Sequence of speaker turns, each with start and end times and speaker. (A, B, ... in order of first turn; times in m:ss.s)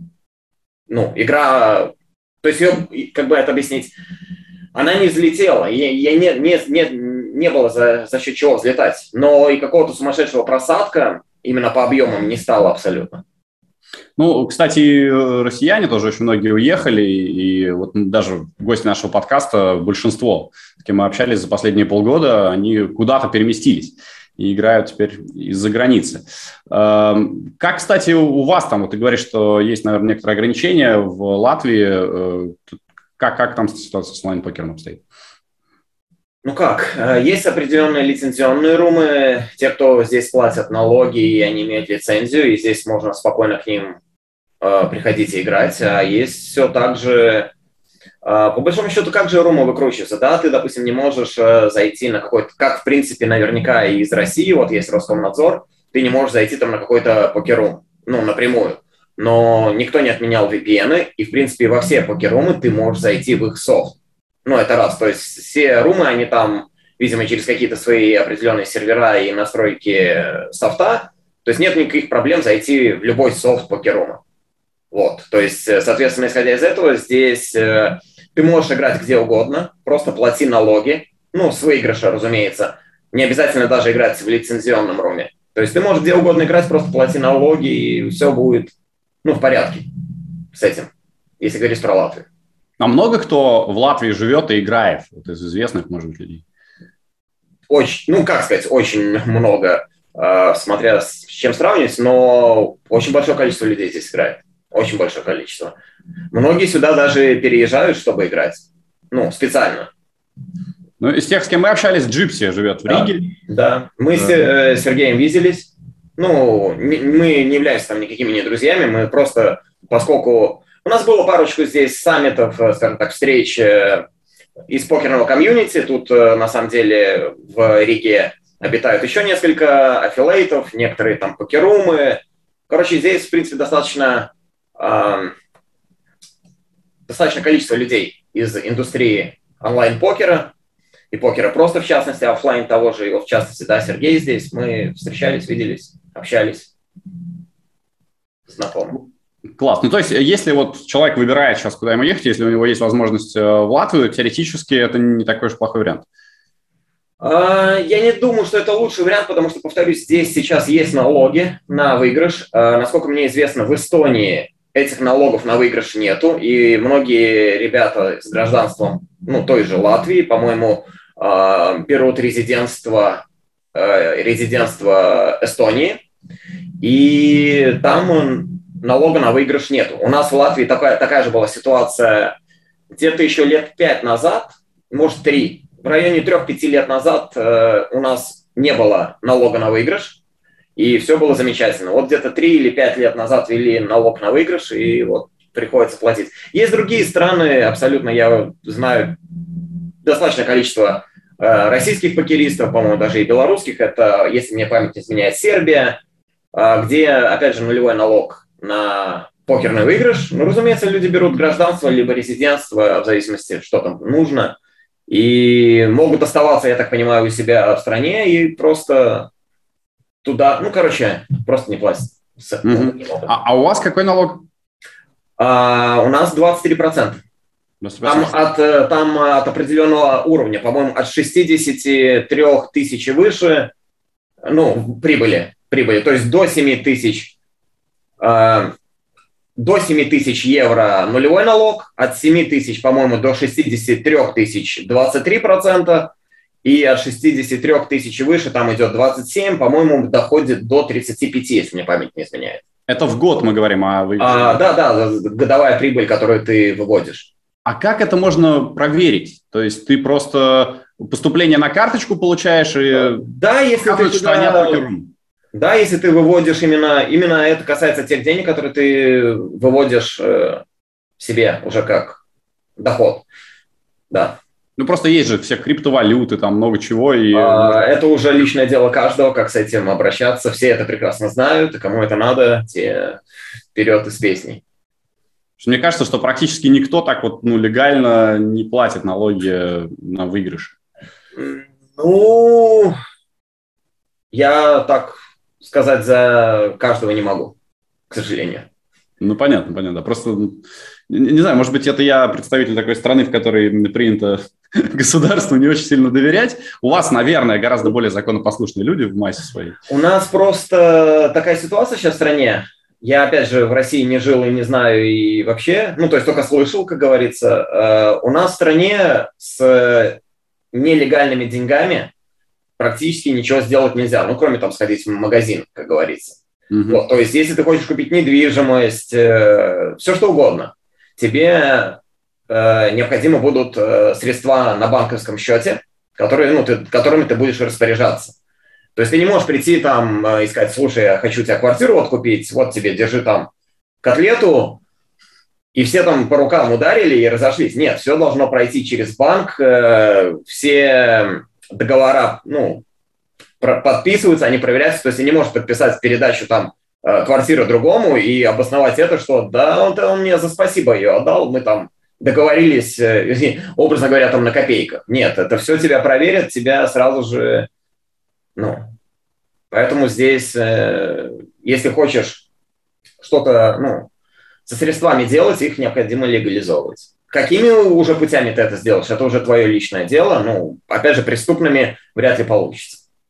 0:00.9-0:03.9 A
0:04.7-0:13.2 A
0:14.2-0:35.0 B
0:36.4-0:44.0 A
0:44.6-0:47.5 A
0:48.2-1:14.2 A
1:14.9-1:28.7 A
1:29.2-1:29.9 A
1:30.5-1:32.2 A
1:32.8-1:36.4 B
1:37.7-1:45.7 A
1:46.3-1:49.9 A
1:51.0-1:53.3 B
1:52.9-2:04.0 A
2:04.7-2:15.3 A
2:17.1-2:20.5 A
2:21.1-2:26.7 A
2:28.5-2:29.0 A
2:29.6-2:36.0 B
2:37.2-2:53.2 A
2:53.7-2:56.0 A
2:56.8-3:02.3 A
3:02.9-3:10.2 A
3:10.8-3:19.2 A
3:20.0-3:26.0 A
3:26.5-3:34.6 A
3:35.1-3:39.3 A
3:40.2-3:43.3 A
3:42.6-3:44.4 B
3:45.4-3:47.2 A
3:47.8-3:48.3 B
3:48.0-3:53.7 A
3:54.4-3:57.3 A
3:58.2-3:58.7 A
3:59.6-4:06.1 A
4:06.6-4:12.6 A
4:12.9-4:14.6 B
4:14.2-4:17.3 A
4:17.6-4:23.2 B
4:22.9-4:24.8 A
4:23.8-4:25.1 B
4:25.5-4:30.6 A
4:31.2-4:32.2 A
4:32.8-4:33.2 A
4:34.1-4:34.4 A
4:34.8-4:37.8 B
4:37.3-4:43.2 A
4:43.7-4:44.6 A
4:45.6-4:50.7 B
4:51.3-4:52.9 A
4:54.3-4:57.5 A
4:58.1-4:58.7 A
4:59.2-5:09.8 B
5:09.9-5:20.2 A
5:20.7-5:22.1 A
5:22.8-5:38.3 A
5:26.7-5:27.0 B
5:39.0-5:43.5 A
5:44.0-5:44.8 A
5:45.7-5:52.8 A
5:53.6-6:07.7 A
6:08.6-6:08.9 A
6:09.7-6:12.4 A
6:13.2-6:14.1 A
6:14.6-6:23.0 A